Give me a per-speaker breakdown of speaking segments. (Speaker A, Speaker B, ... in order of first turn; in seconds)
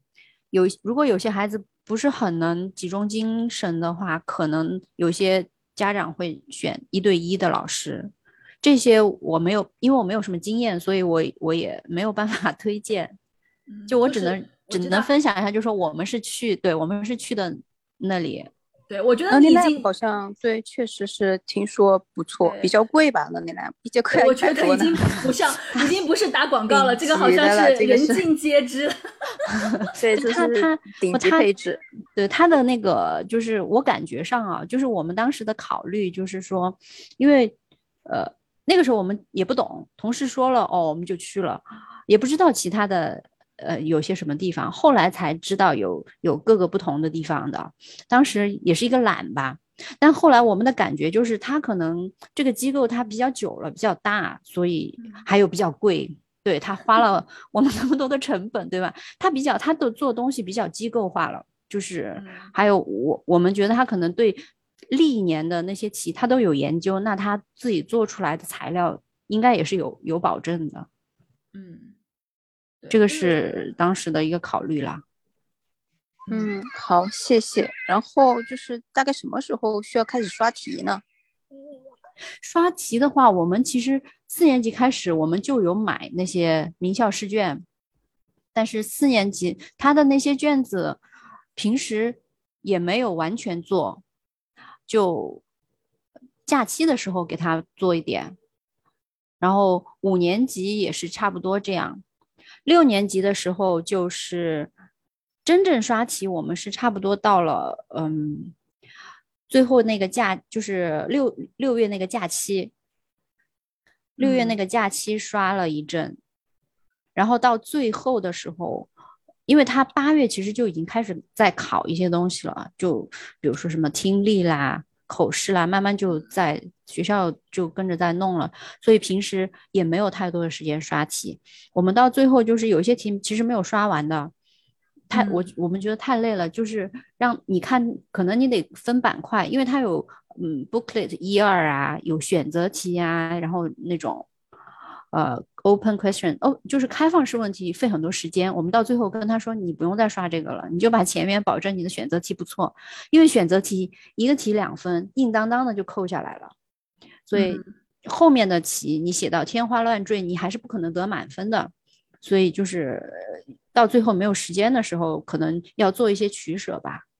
Speaker A: 0.5-13.2, 13.9-18.5, 30.1-31.5, 32.1-70.9, 72.9-75.0, 82.4-87.6, 88.5-91.0, 91.6-94.0, 94.9-95.4, 96.5-98.3, 99.4-102.0, 102.7-104.7, 105.4-108.5, 109.5-112.7, 114.2-116.2, 117.2-118.9, 119.5-134.3, 135.1-144.3, 145.1-156.5, 157.3-167.0
Speaker B: 13.7-15.1, 18.9-19.9, 22.4-22.7, 24.1-29.6, 55.0-55.3, 62.2-62.5, 71.5-71.9, 72.8-73.4, 114.2-114.6, 135.1-135.5, 157.3-157.7
Speaker C: 19.3-25.3, 26.7-28.3, 29.9-31.8, 76.3-81.0